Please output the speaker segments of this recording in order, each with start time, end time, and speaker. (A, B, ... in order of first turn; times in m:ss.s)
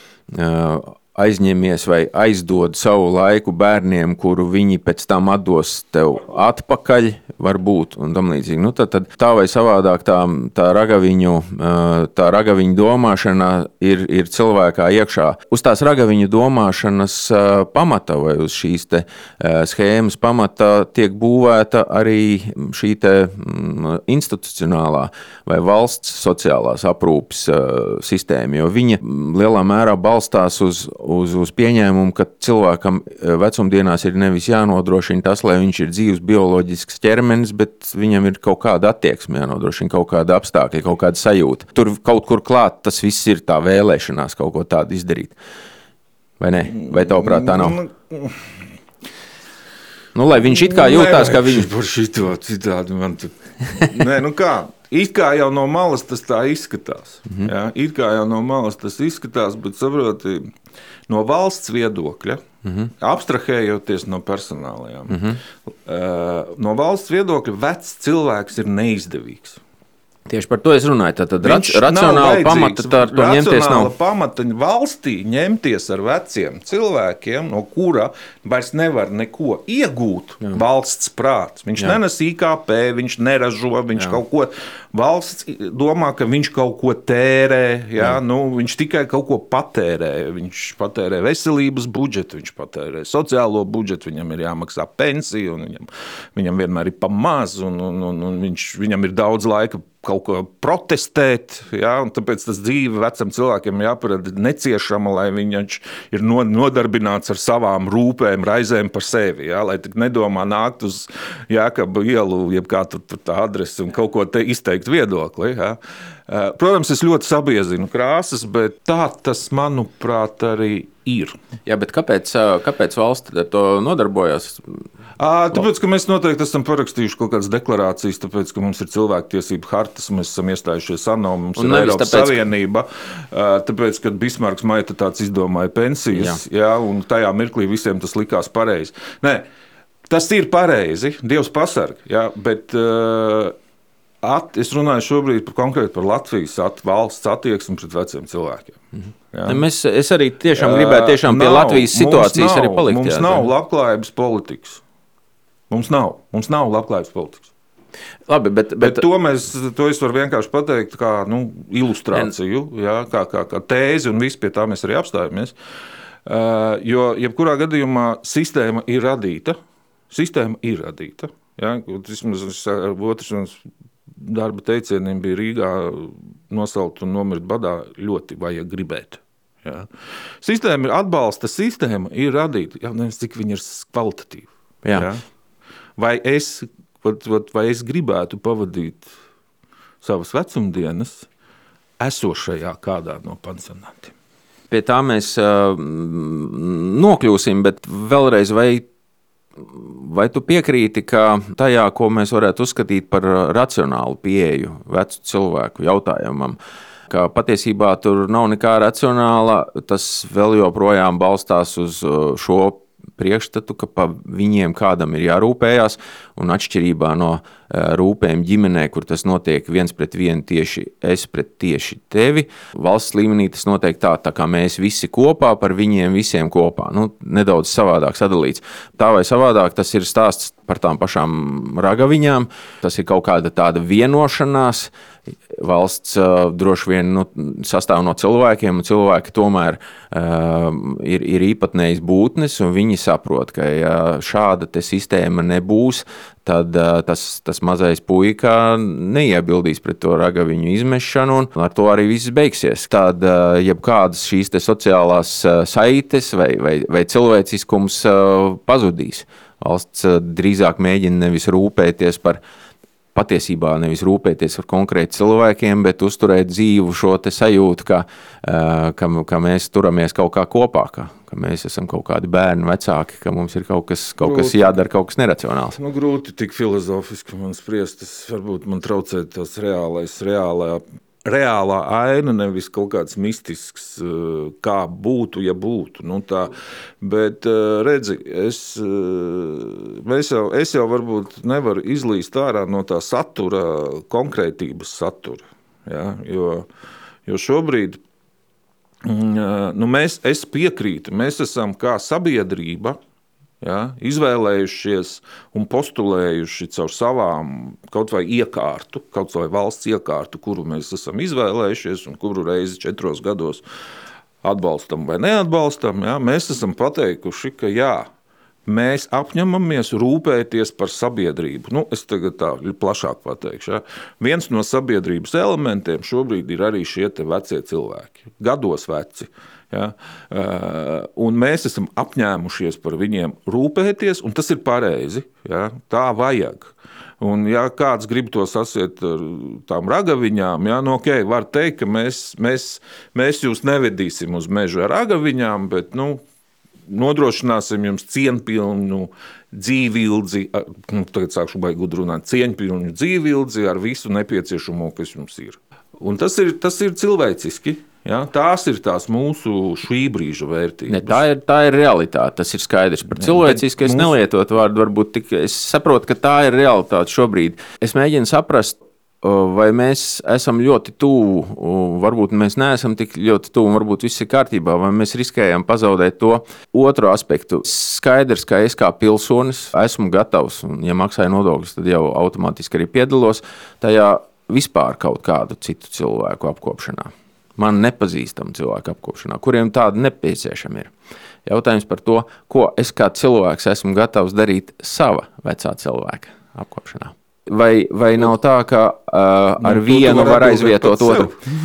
0:00.3-0:45.4 A
0:46.4-0:47.8 A
0:46.7-0:48.5 B
0:50.1-0:51.7 A
0:50.4-1:00.5 B
1:01.1-1:02.4 B
1:02.6-1:02.9 A
1:03.0-1:09.6 B
1:05.1-1:05.4 A
1:10.3-1:13.9 A
1:11.4-2:01.4 B
2:01.6-2:04.8 A
2:05.2-2:19.4 B
2:11.6-2:12.4 A
2:16.1-2:16.4 A
2:20.1-2:23.6 B
2:24.2-2:28.8 B
2:29.3-2:29.6 B
2:29.4-2:33.4 A
2:30.6-2:34.8 B
2:35.7-2:37.5 B
2:38.3-2:39.0 A
2:38.8-2:45.5 B
2:46.2-2:49.6 B
2:50.1-2:53.6 B
2:54.2-2:59.9 B
3:00.4-3:05.2 B
3:06.0-3:09.1 B
3:10.0-3:11.3 B
3:12.0-3:14.1 B
3:14.7-3:18.8 A
3:19.6-3:26.6 A
3:27.1-3:54.9 A
3:55.5-4:22.4 A
4:23.1-4:35.8 A
4:34.2-4:34.7 B
4:35.8-4:56.7 B
4:57.3-4:58.0 B
4:59.0-5:03.0 B
5:03.6-5:13.6 B
5:14.4-5:18.1 B
5:18.6-5:46.2 B
5:46.9-6:01.2 B
6:00.9-6:30.9 A
6:03.2-6:04.1 B
6:31.4-6:41.3 A
6:39.6-6:41.4 B